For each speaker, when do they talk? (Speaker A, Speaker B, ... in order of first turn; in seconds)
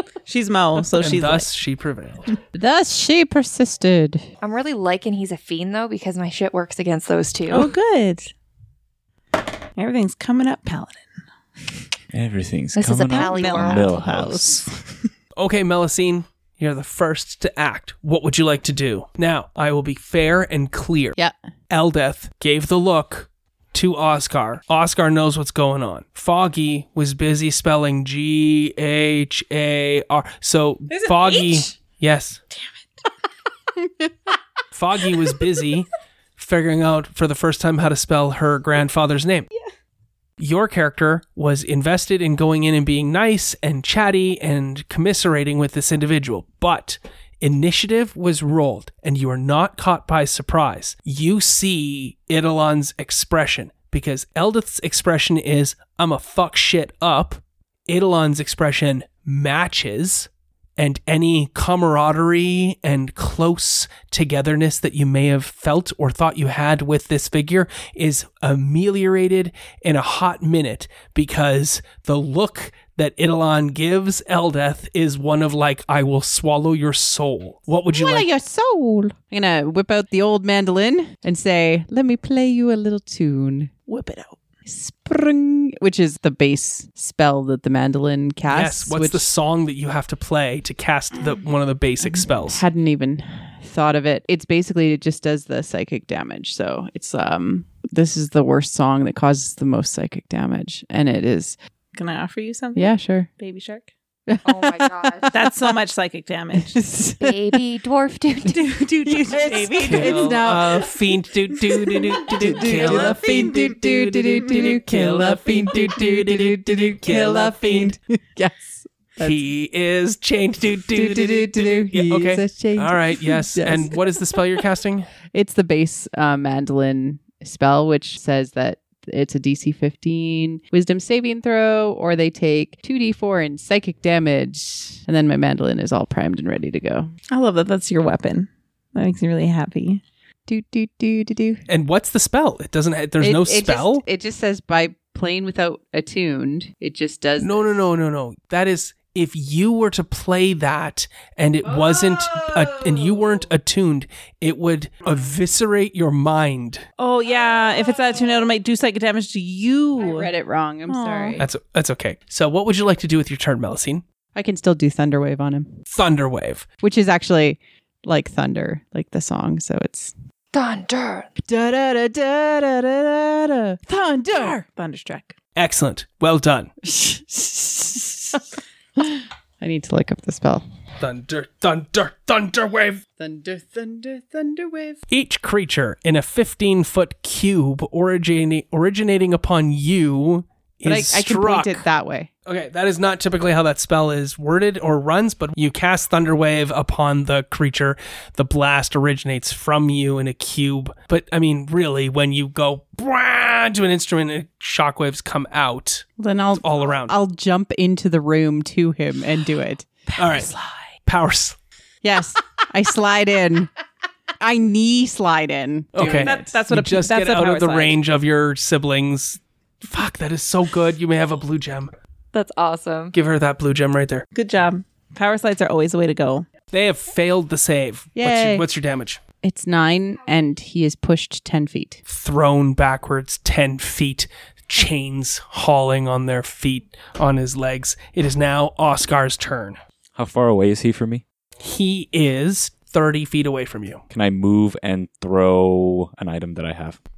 Speaker A: 0.2-1.5, 7.5-8.3, 9.8-11.0, 13.0-15.0, 30.9-31.7, 32.5-32.8, 83.9-84.3, 101.9-103.9, 105.3-106.8, 108.6-110.5, 112.7-113.7, 137.3-140.0, 157.0-160.3, 160.9-161.4, 174.3-175.3, 210.4-210.8, 216.0-218.0, 224.3-226.5
Speaker B: 1.0-2.3, 15.4-21.1, 21.7-32.4, 34.7-39.5, 40.4-78.3, 88.5-92.7, 109.8-117.9, 119.2-125.1, 141.7-144.0, 147.4-156.8, 161.4-164.0, 165.9-166.7, 175.6-176.7, 181.0-183.0, 185.1-191.8, 192.4-206.1, 206.6-207.1, 210.2-210.5, 211.0-211.6, 215.9-221.9, 223.1-224.2, 226.7-229.2, 232.1-239.8, 241.6-244.0
Speaker C: 2.5-4.2, 77.9-83.7, 84.7-89.2, 92.0-101.6, 102.8-103.3, 104.3-105.8, 106.5-107.6, 108.5-111.0, 111.6-119.4, 120.9-124.2, 125.3-137.1, 140.5-141.6, 143.2-147.8, 151.7-153.1, 160.0-161.4, 164.3-165.8, 166.8-170.1, 171.4-174.6, 176.8-178.4, 179.0-180.6, 183.2-185.0, 190.8-192.3, 206.2-210.2, 212.0-213.7, 214.4-216.6, 228.2-228.7, 229.4-232.0
Speaker D: 4.4-7.7, 12.7-13.9, 104.4-105.3, 107.2-108.9, 170.5-171.3, 222.3-223.1
Speaker E: 12.1-14.7, 240.2-241.2, 244.1-247.0